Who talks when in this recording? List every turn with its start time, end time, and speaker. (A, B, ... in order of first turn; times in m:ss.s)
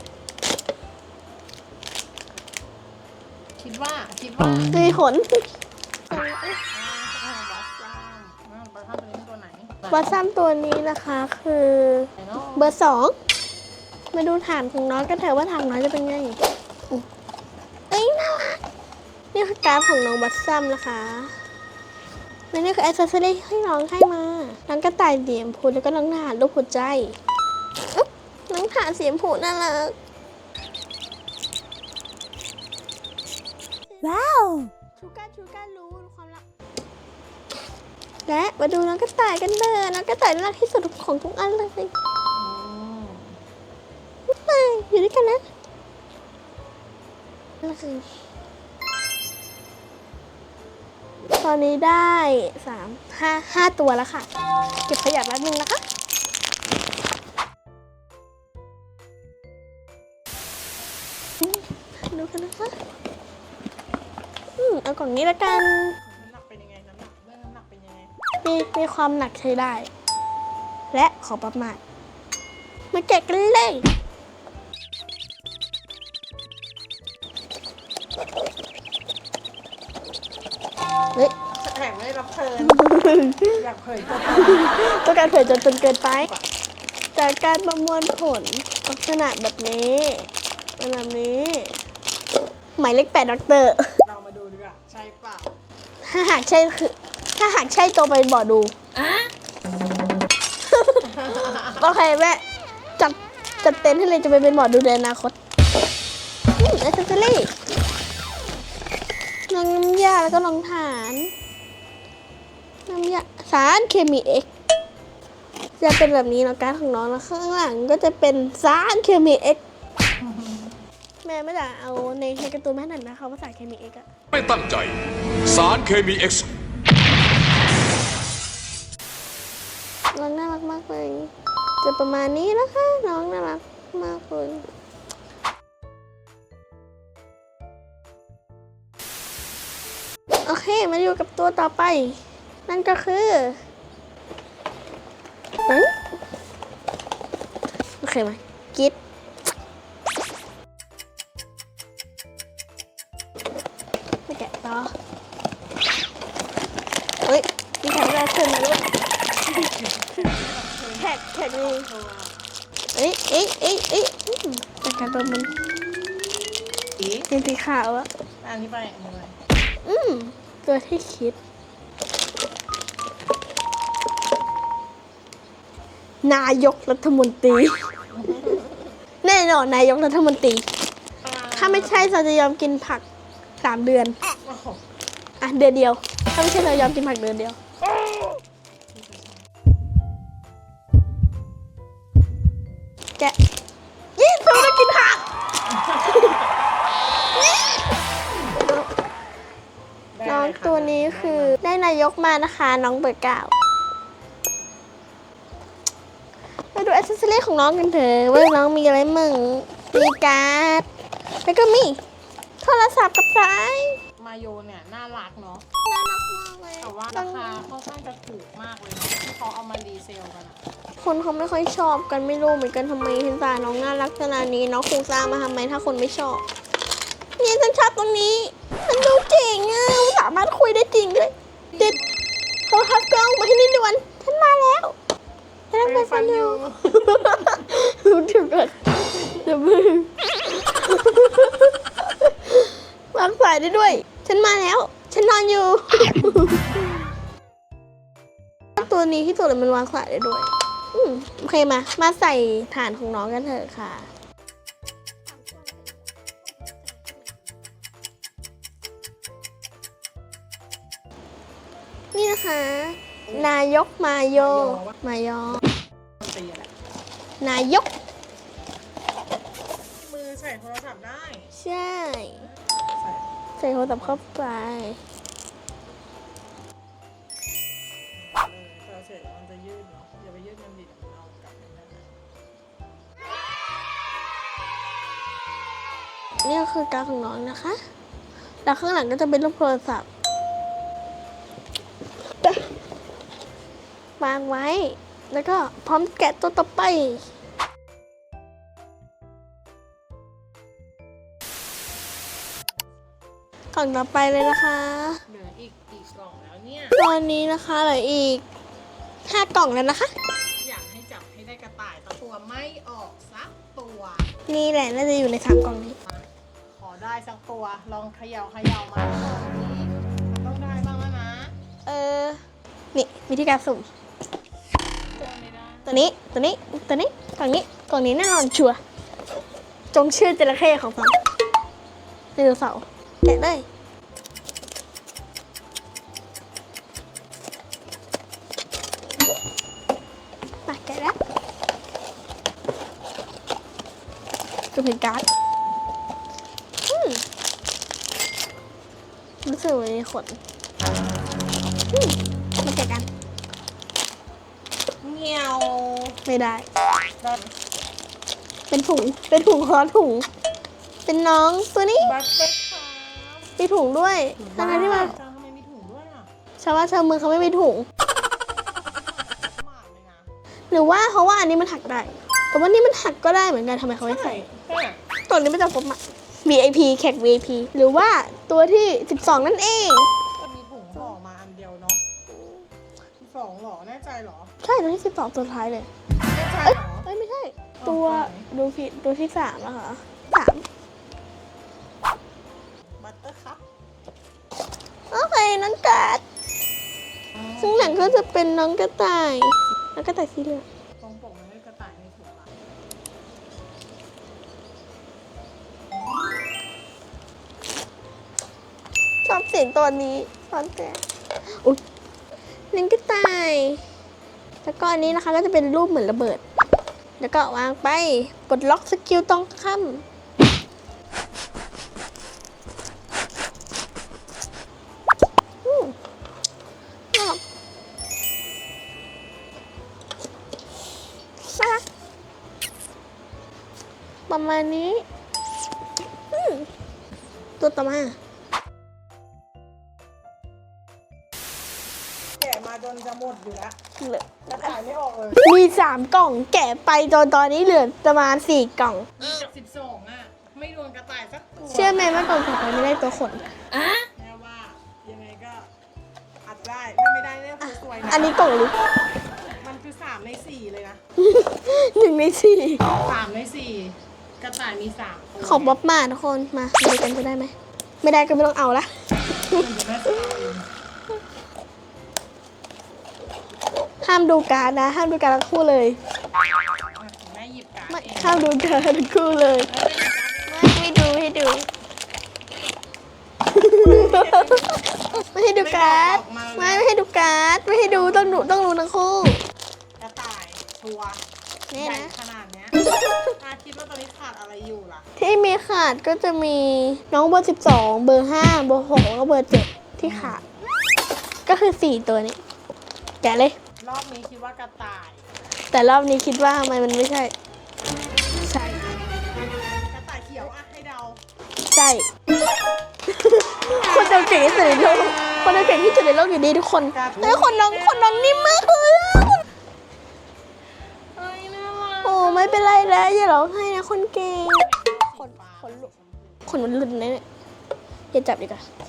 0:03.6-0:04.7 A
0:04.7-0:05.5 B
0:06.1-0:06.6 B
0:06.7-0:09.9 A
0:09.9-0:13.2 B
0:12.2-0:12.6 A
0:14.1-0:17.0 B
0:17.9-0:18.6 B
0:19.3-0:21.3 B
0:22.5-0:27.2 B
0:27.9-0:30.0 B
0:33.9-0:36.4 B
0:34.8-0:35.6 A
0:38.3-0:41.9 B
0:42.3-0:43.4 A
0:44.3-0:45.4 B
0:47.6-0:48.1 B
0:51.4-0:54.3 B
0:54.8-0:55.8 B
1:01.4-1:02.7 B
1:04.6-1:06.0 B
1:06.0-1:08.1 A
1:08.4-1:09.9 B
1:10.9-1:11.8 B
1:12.9-1:13.9 B
1:21.5-1:22.9 A
1:22.6-1:23.6 B
1:23.5-1:26.5 A
1:24.3-1:26.3 B
1:27.1-1:31.8 B
1:32.8-1:33.9 B
1:34.0-1:35.5 A
1:36.0-1:38.7 B
1:40.6-1:42.4 B
1:41.0-1:41.9 A
1:43.0-1:45.4 B
1:46.6-1:47.5 B
1:49.5-1:51.3 B
1:52.9-1:54.5 B
1:55.8-1:59.6 B
2:00.2-2:00.8 A
2:01.2-2:04.1 B
2:04.3-2:06.5 C
2:10.1-2:14.7 B
2:20.4-2:23.6 B
2:25.6-2:25.9 B
2:28.0-2:29.0 B
2:34.3-2:34.9 B
2:37.2-2:38.9 B
2:39.4-2:42.5 A
2:41.0-2:41.9 B
2:42.9-2:45.6 B
2:47.0-2:47.3 A
2:47.3-2:48.1 B
2:48.4-2:49.4 A
2:49.8-2:51.4 B
2:56.2-2:58.7 B
2:58.1-2:58.7 A
2:59.2-3:00.6 B
3:01.2-3:02.2 A
3:01.6-3:03.0 B
3:03.6-3:04.2 B
3:04.4-3:04.8 A
3:05.4-3:07.6 B
3:08.9-3:09.4 A
3:14.2-3:15.3 B
3:15.7-3:16.4 A
3:18.5-3:18.9 B
3:20.1-3:21.6 A
3:20.2-3:23.5 B
3:26.7-3:30.9 B
3:31.4-3:32.0 B
3:32.6-3:34.0 B
3:34.2-3:35.6 A
3:35.8-3:37.6 B
3:36.8-3:40.6 A
3:41.0-3:46.4 B
3:47.4-3:52.0 B
3:52.7-3:54.9 B
3:55.7-4:07.1 B
3:55.8-3:57.1 A
4:08.8-4:14.1 B
4:22.1-4:25.6 B
4:24.4-4:25.0 A
4:26.2-4:26.7 A
4:27.4-4:27.9 B
4:29.8-4:31.5 A
4:31.5-4:32.5 B
4:33.0-4:33.2 A
4:33.6-4:35.0 B
4:33.9-4:34.2 A
4:38.1-4:42.2 A
4:46.4-4:47.8 B
4:48.6-4:50.1 B
4:54.2-4:57.2 B
5:02.7-5:02.9 A
5:03.7-5:05.2 B
5:05.3-5:07.0 A
5:07.0-5:08.4 B
5:09.2-5:10.1 B
5:10.6-5:14.3 A
5:14.5-5:16.0 B
5:16.0-5:21.5 A
5:21.8-5:22.4 B
5:22.9-5:23.9 B
5:25.0-5:26.0 A
5:25.8-5:28.8 B
5:29.9-5:31.2 B
5:32.4-5:33.6 B
5:40.7-5:41.2 B
5:44.7-5:45.3 B
5:46.9-5:47.2 B
5:49.4-5:50.4 B
5:51.9-5:53.1 B
5:55.0-5:56.2 A
5:56.2-5:56.6 B
5:57.2-5:57.5 A
5:58.7-6:00.3 B
6:01.1-6:02.1 B
6:02.0-6:03.5 A
6:03.6-6:05.2 B
6:04.4-6:06.3 A
6:06.6-6:07.9 B
6:08.8-6:10.3 A
6:10.7-6:14.4 B
6:14.0-6:15.0 A
6:15.3-6:20.1 B
6:20.4-6:22.0 A
6:22.3-6:22.6 B
6:23.2-6:24.5 A
6:24.6-6:25.9 B
6:26.3-6:27.1 A
6:26.6-6:30.6 B
6:27.8-6:28.5 A
6:33.0-6:33.6 A
6:35.1-6:36.2 B
6:37.6-6:40.6 B
6:41.0-6:42.5 A
6:49.2-6:51.8 B
6:52.7-6:53.8 B
6:54.6-6:56.4 B
6:57.2-7:00.0 B
7:05.6-7:06.0 B
7:07.1-7:07.4 B
7:11.4-7:11.8 B
7:14.3-7:15.0 B
7:16.3-7:16.7 B
7:17.6-7:18.2 B
7:22.4-7:23.8 A
7:24.0-7:24.7 B
7:24.4-7:25.5 A
7:25.4-7:29.3 B
7:29.2-7:32.1 A
7:31.7-7:33.5 B
7:33.8-7:35.7 A
7:36.4-7:38.4 A
7:38.1-7:38.7 B
7:39.4-7:41.0 A
7:41.2-7:42.8 B
7:43.0-7:45.8 A
7:45.4-7:49.7 B
7:49.5-7:50.7 A
7:54.0-7:56.0 B
7:56.7-7:58.5 A
7:57.9-7:59.7 B
7:59.6-8:01.0 A
8:00.5-8:01.7 B
8:03.5-8:09.4 B
8:03.6-8:06.9 A
8:07.8-8:08.5 A
8:10.0-8:12.8 A
8:11.7-8:12.1 B
8:13.4-8:15.1 A
8:15.2-8:20.4 B
8:20.0-8:20.4 A
8:21.4-8:22.4 B
8:23.2-8:23.6 B
8:23.8-8:25.3 A
8:25.7-8:27.3 B
8:28.4-8:28.8 B
8:28.8-8:31.2 A
8:31.7-8:32.1 B
8:33.1-8:39.4 B
8:36.9-8:38.7 A
8:41.1-8:42.9 A
8:42.0-8:45.9 B
8:44.4-8:47.0 A
8:46.5-8:47.2 B
8:48.1-8:48.6 B